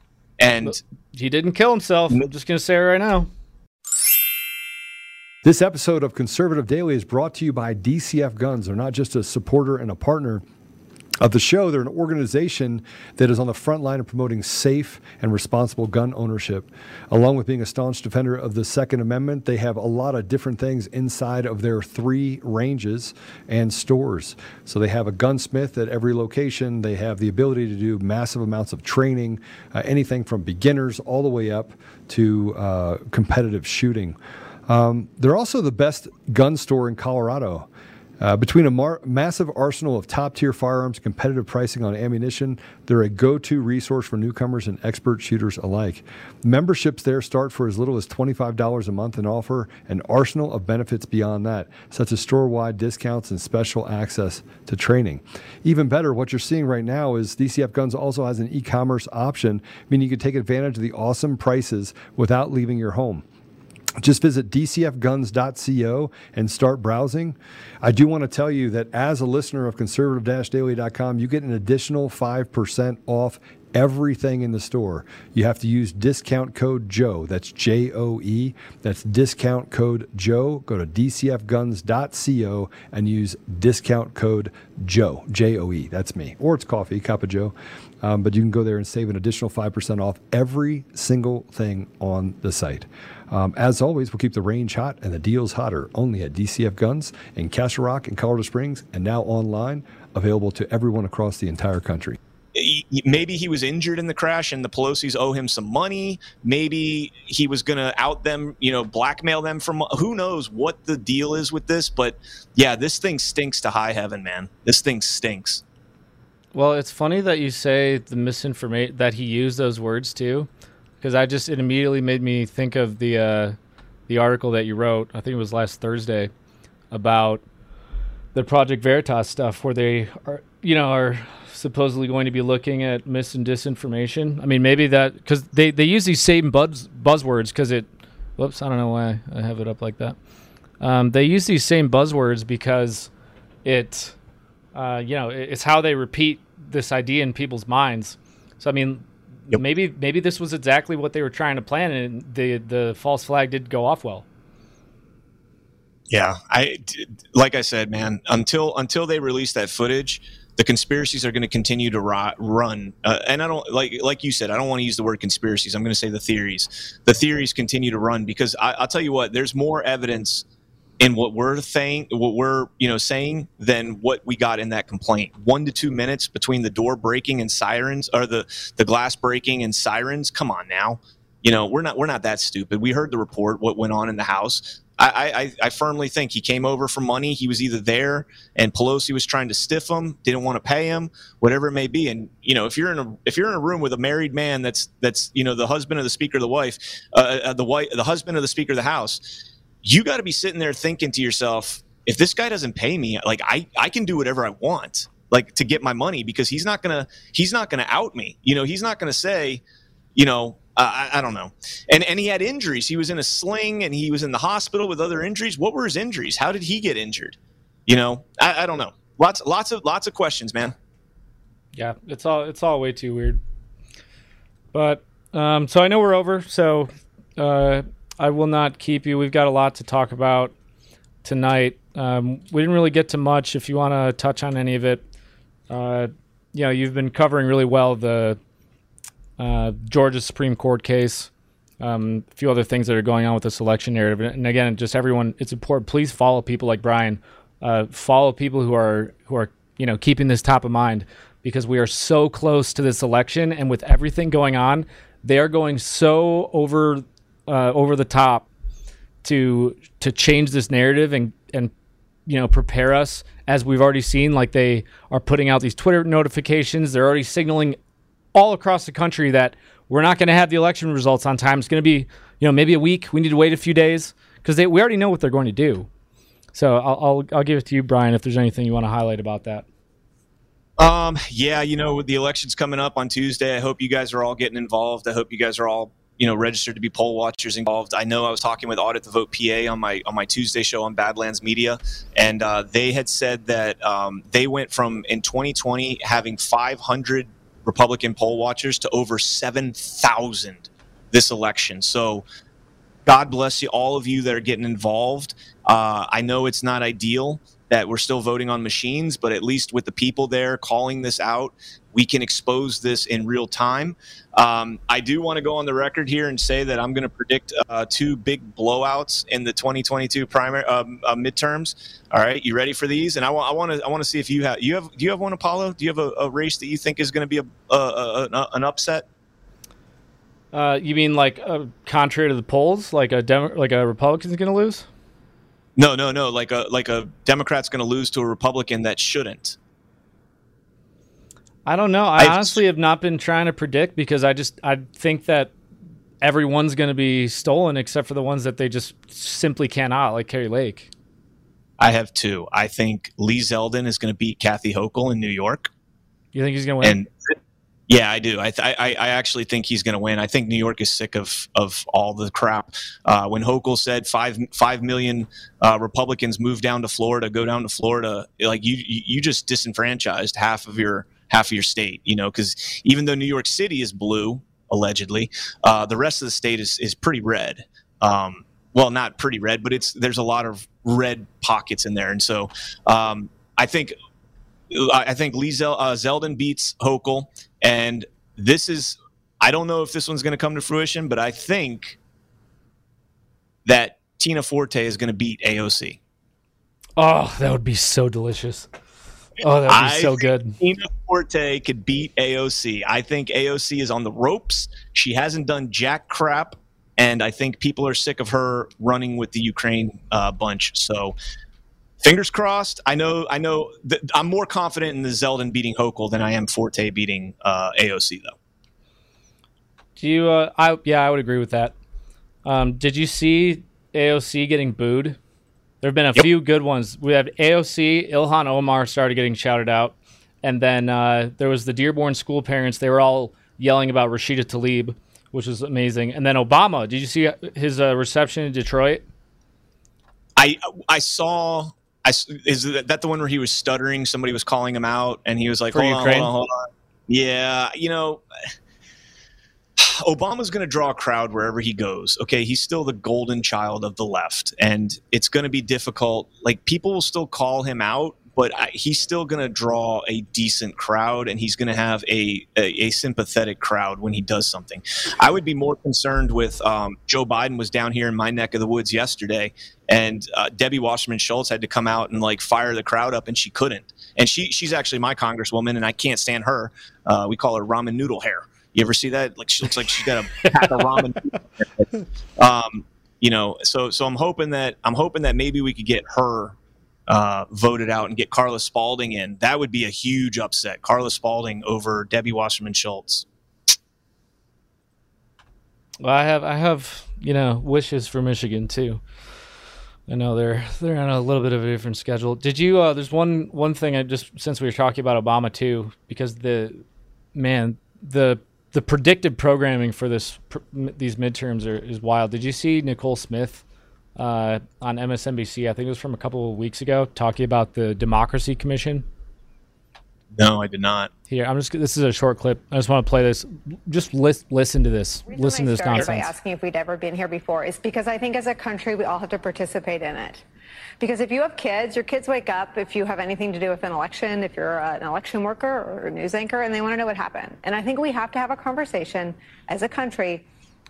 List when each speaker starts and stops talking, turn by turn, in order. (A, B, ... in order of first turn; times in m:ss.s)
0:00.4-0:00.8 A
0:00.6-0:03.3 B
0:05.4-0:10.4 C
0:11.2-0:34.2 C
0:34.7-0:37.7 C
0:38.2-1:03.2 C
1:04.0-1:42.2 C
1:42.5-1:55.6 A
1:56.5-2:00.5 B
2:01.0-2:03.6 B
2:04.1-2:06.3 B
2:06.9-2:07.4 B
2:08.3-2:20.2 B
2:20.8-2:23.1 B
2:23.6-2:24.2 B
2:24.7-2:34.2 B
2:36.1-2:50.4 A
2:51.0-3:19.2 A
3:19.8-3:29.6 A
3:30.1-3:40.7 A
3:41.8-3:43.4 B
3:44.7-3:50.5 B
3:51.2-3:55.0 B
3:55.7-3:58.4 B
3:59.4-4:18.5 B
4:19.2-4:21.7 B
4:22.2-4:27.8 B
4:28.3-4:35.9 B
4:36.5-4:39.6 B
4:40.8-5:02.2 A
5:03.0-5:29.0 A
5:30.5-5:34.9 B
5:35.8-5:39.6 A
5:41.6-5:45.5 B
5:42.2-5:42.6 A
5:46.2-5:50.9 B
5:51.8-5:55.7 A
5:56.3-5:57.0 B
5:56.8-5:57.3 A
5:57.9-6:23.9 A
6:24.7-6:32.0 A
6:33.6-6:36.0 A
6:37.0-6:38.7 B
6:39.4-6:40.6 B
6:39.6-6:51.1 A
6:52.0-6:58.3 A
7:00.0-7:01.7 B
7:02.4-7:05.2 B
7:05.8-7:19.0 B
7:20.4-7:28.2 A
7:25.7-7:26.3 B
7:29.8-8:06.6 A
8:00.4-8:00.9 B
8:07.1-8:13.2 A
8:16.0-8:19.0 B
8:20.1-8:26.8 B
8:27.3-8:33.6 B
8:34.2-8:39.0 B
8:40.3-8:41.1 A
8:41.3-8:46.3 B
8:45.3-8:50.4 D
8:51.0-9:00.4 D